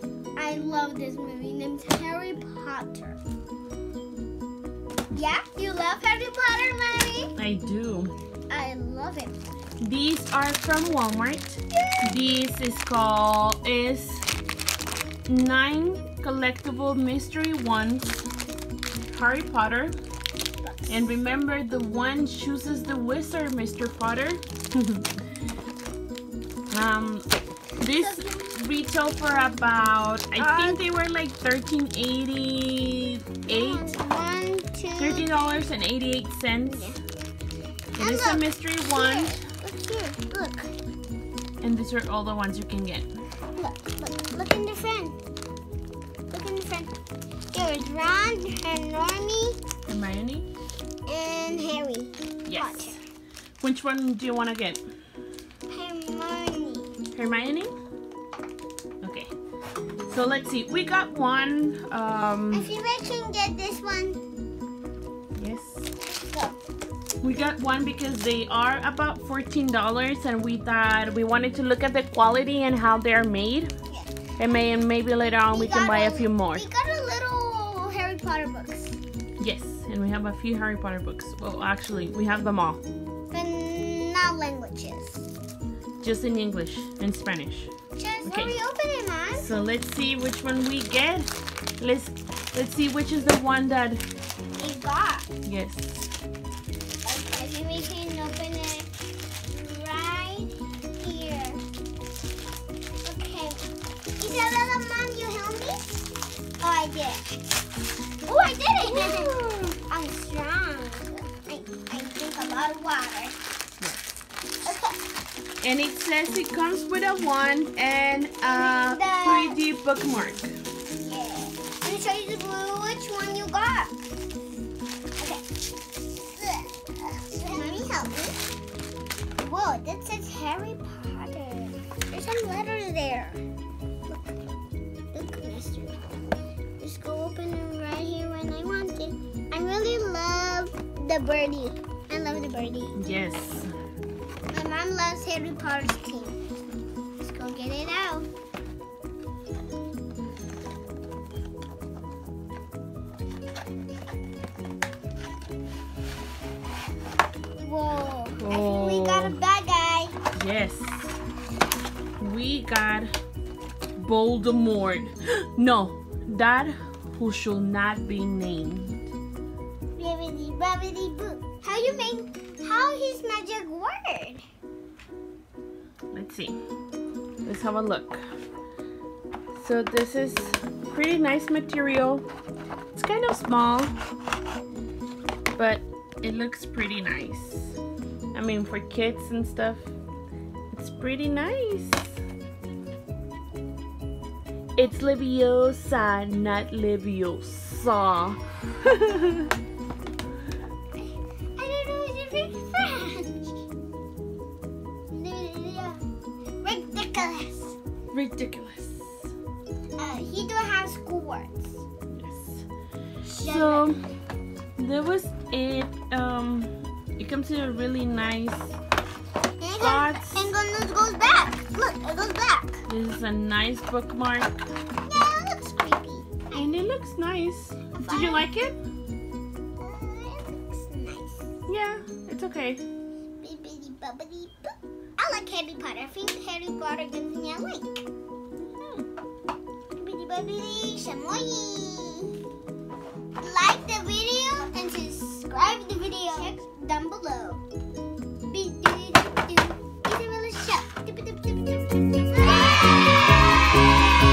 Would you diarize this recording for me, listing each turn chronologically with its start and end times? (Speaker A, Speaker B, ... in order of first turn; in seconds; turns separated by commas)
Speaker A: 0.3-3.2, Speaker A: 5.1-7.3, Speaker B: 7.3-8.1, Speaker A: 8.5-9.4, Speaker B: 9.8-14.3, Speaker A: 11.7-12.2, Speaker B: 15.3-18.1, Speaker B: 19.1-19.9, Speaker A: 20.6-21.0, Speaker B: 20.9-25.1, Speaker B: 26.7-27.2, Speaker B: 27.8-34.0, Speaker A: 27.8-28.5, Speaker A: 30.4-30.8, Speaker A: 33.5-35.6, Speaker B: 34.9-37.0, Speaker A: 36.6-37.0, Speaker B: 37.9-39.4, Speaker A: 38.0-40.7, Speaker B: 41.6-43.2, Speaker A: 43.5-45.2, Speaker A: 46.3-46.9, Speaker A: 47.5-49.6, Speaker B: 49.9-50.5, Speaker A: 51.1-53.0, Speaker B: 52.5-53.0, Speaker B: 53.6-54.8, Speaker A: 55.7-56.9, Speaker B: 57.1-57.7, Speaker B: 59.0-59.3, Speaker B: 60.1-62.7, Speaker A: 62.5-64.2, Speaker B: 65.3-65.9, Speaker A: 66.0-66.6, Speaker B: 67.2-73.7, Speaker B: 74.4-76.7, Speaker A: 75.5-79.0, Speaker B: 79.4-82.8, Speaker A: 83.3-85.3, Speaker B: 86.0-87.7, Speaker A: 87.9-89.5, Speaker B: 88.2-88.5, Speaker B: 89.3-94.0, Speaker A: 94.6-95.3, Speaker B: 95.4-96.1, Speaker A: 97.0-98.9, Speaker A: 99.4-101.6, Speaker A: 103.0-103.6, Speaker A: 104.2-106.0, Speaker A: 106.6-107.3, Speaker A: 108.2-113.4, Speaker B: 108.8-109.8, Speaker A: 114.6-115.0, Speaker B: 115.6-120.5, Speaker A: 118.4-119.6, Speaker A: 120.9-124.0, Speaker A: 125.2-125.4, Speaker A: 126.3-128.4, Speaker A: 129.4-133.4, Speaker A: 134.1-134.3, Speaker A: 135.1-136.1, Speaker A: 136.8-143.0, Speaker B: 142.9-143.7, Speaker A: 144.5-146.4, Speaker A: 147.2-148.3, Speaker A: 157.6-160.2, Speaker B: 158.4-159.4, Speaker B: 160.3-161.2, Speaker B: 162.2-163.1, Speaker B: 164.0-169.0, Speaker A: 169.9-174.4, Speaker B: 176.1-176.6, Speaker B: 177.4-178.2, Speaker B: 179.5-182.2, Speaker B: 182.9-183.9, Speaker B: 185.6-187.8, Speaker B: 188.3-189.9, Speaker B: 190.7-192.2, Speaker B: 194.8-199.5, Speaker A: 200.9-203.6, Speaker A: 205.1-206.0, Speaker A: 206.6-207.8, Speaker B: 208.1-209.3, Speaker A: 210.0-211.8, Speaker B: 212.1-212.6, Speaker A: 213.2-213.9, Speaker B: 213.4-214.0, Speaker B: 214.8-218.8, Speaker A: 219.6-222.8, Speaker B: 219.8-220.5, Speaker B: 222.9-224.6, Speaker A: 225.0-226.8, Speaker B: 226.5-228.8, Speaker A: 227.9-228.5, Speaker A: 229.8-231.5, Speaker B: 231.7-232.8, Speaker A: 233.4-238.0, Speaker B: 238.6-239.1, Speaker A: 239.9-242.3, Speaker A: 243.4-247.6, Speaker A: 248.5-254.0